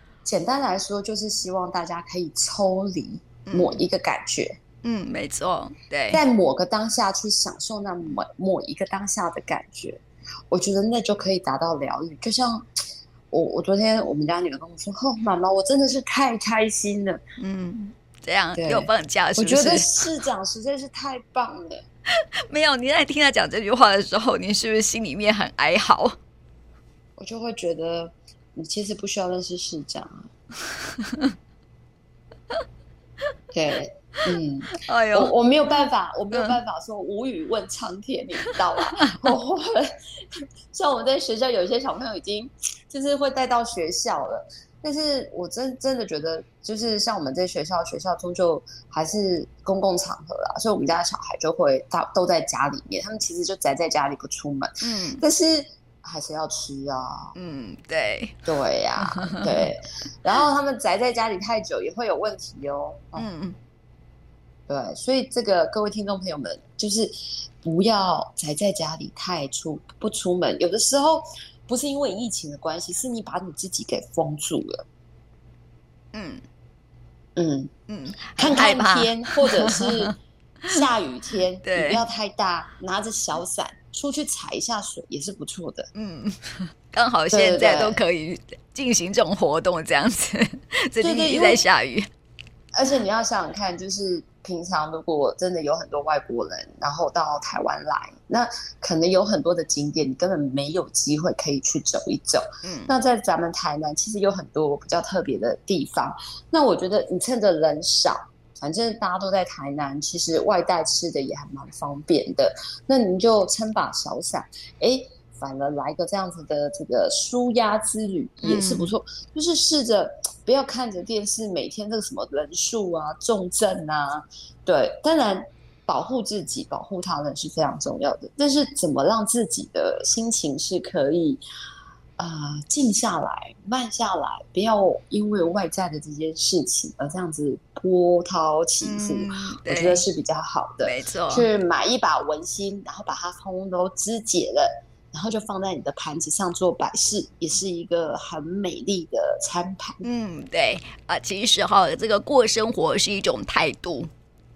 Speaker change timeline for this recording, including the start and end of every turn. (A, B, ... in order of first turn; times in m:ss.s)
0:00.2-0:04.6 A
0:03.5-0:03.8 B
0:04.8-0:06.2 B
0:06.1-0:12.7 A
0:13.3-0:17.2 A
0:17.4-0:20.0 B
0:18.6-0:21.8 A
0:22.5-0:26.2 B
0:27.2-0:30.3 A
0:30.8-0:31.3 B
0:33.5-0:57.3 A
0:34.8-0:35.3 B
0:54.8-0:55.2 B
0:57.4-0:58.4 B
0:58.5-1:03.3 A
0:59.0-0:59.6 B
1:03.2-1:03.6 B
1:04.7-1:14.8 A
1:16.1-1:16.4 B
1:17.4-1:17.7 A
1:17.9-1:20.1 B
1:18.4-1:20.1 A
1:20.7-1:25.9 A
1:21.6-1:22.0 B
1:26.0-1:32.1 B
1:27.3-1:28.0 A
1:31.0-1:31.6 A
1:32.7-2:11.4 A
1:42.6-1:42.9 B
1:58.4-1:58.9 B
2:12.2-2:30.0 A
2:18.8-2:20.0 B
2:20.8-2:21.5 B
2:30.0-2:34.1 B